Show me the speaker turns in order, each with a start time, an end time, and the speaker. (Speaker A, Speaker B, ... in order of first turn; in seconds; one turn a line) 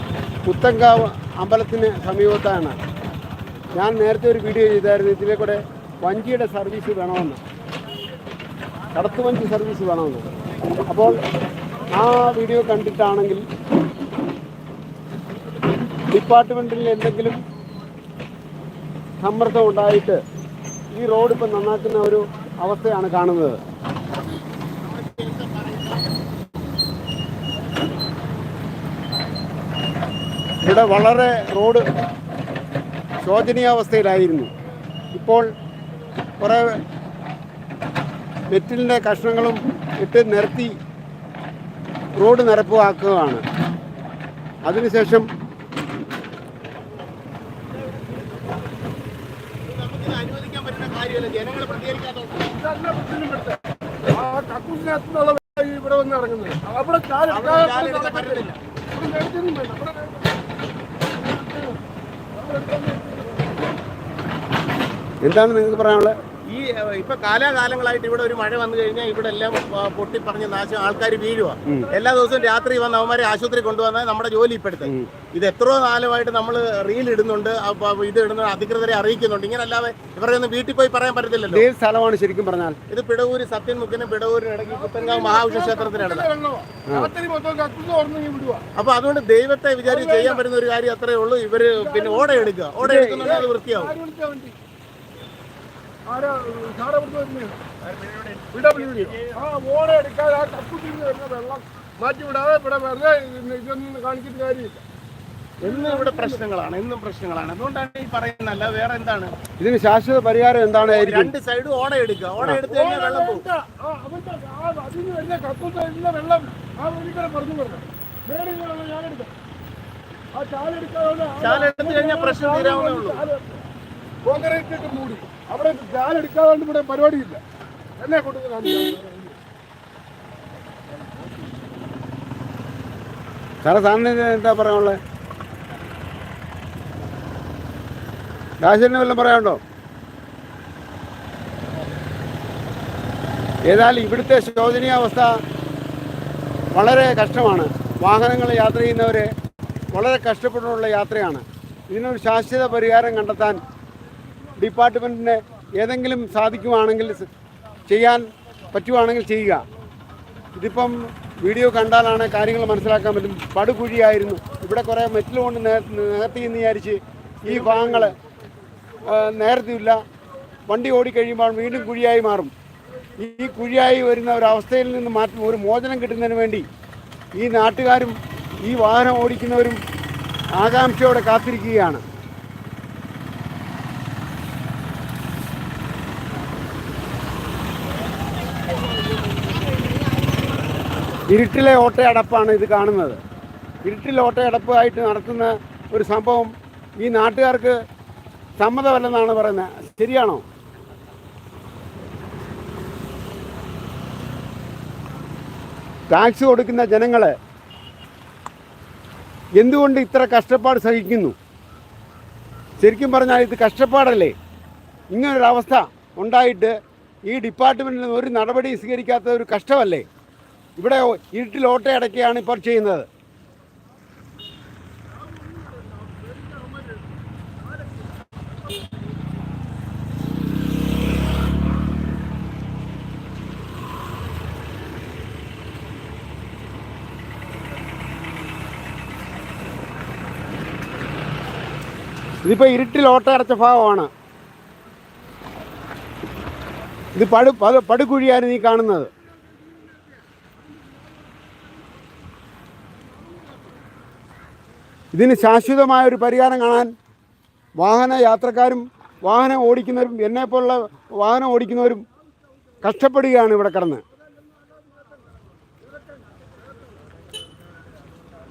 Speaker A: 0.5-2.8
Speaker A: 3.8-7.4
Speaker A: 8.9-10.3
Speaker A: 10.9-11.2
Speaker A: 11.9-13.4
Speaker A: 16.1-17.4
Speaker A: 19.2-20.2
Speaker A: 20.9-23.6
Speaker B: 24.8-26.1
Speaker A: 30.6-31.8
Speaker A: 33.2-34.5
Speaker A: 35.1-35.5
Speaker A: 36.4-36.7
Speaker A: 38.5-40.7
Speaker A: 42.2-43.4
Speaker A: 44.6-45.3
Speaker B: 49.6-52.5
Speaker C: 52.5-60.3
Speaker B: 57.3-58.6
Speaker C: 61.1-61.8
Speaker C: 62.3-63.5
Speaker A: 65.2-66.1
Speaker B: 66.5-81.7
Speaker A: 81.5-82.8
Speaker B: 82.9-86.3
Speaker C: 84.7-88.6
Speaker B: 88.8-93.9
Speaker C: 89.8-90.4
Speaker C: 91.8-92.5
Speaker A: 92.8-93.3
Speaker C: 93.0-94.5
Speaker C: 96.0-97.6
Speaker B: 97.8-99.4
Speaker C: 98.5-104.8
Speaker B: 105.6-109.3
Speaker C: 105.6-106.4
Speaker A: 109.6-111.3
Speaker B: 110.7-113.5
Speaker C: 112.6-119.3
Speaker C: 120.3-123.6
Speaker B: 121.4-123.2
Speaker C: 124.2-127.4
Speaker C: 128.0-129.4
Speaker A: 133.6-135.0
Speaker A: 138.6-139.6
Speaker A: 143.7-145.3
Speaker A: 146.7-149.3
Speaker A: 149.9-153.6
Speaker A: 154.6-157.3
Speaker A: 157.9-159.6
Speaker A: 160.6-168.2
Speaker C: 167.5-168.1
Speaker A: 169.0-170.0
Speaker A: 170.7-172.5
Speaker A: 173.2-176.7
Speaker A: 177.4-179.8
Speaker A: 180.6-182.0
Speaker A: 191.3-193.2
Speaker A: 193.8-197.8
Speaker A: 198.6-200.4
Speaker A: 206.1-207.3
Speaker A: 209.6-211.4
Speaker A: 212.8-214.3
Speaker A: 215.1-216.7
Speaker A: 217.3-220.1
Speaker A: 220.8-223.1
Speaker C: 225.4-227.0
Speaker A: 242.4-244.1
Speaker A: 247.2-249.1
Speaker A: 255.1-256.9
Speaker A: 257.8-262.0
Speaker A: 262.8-264.0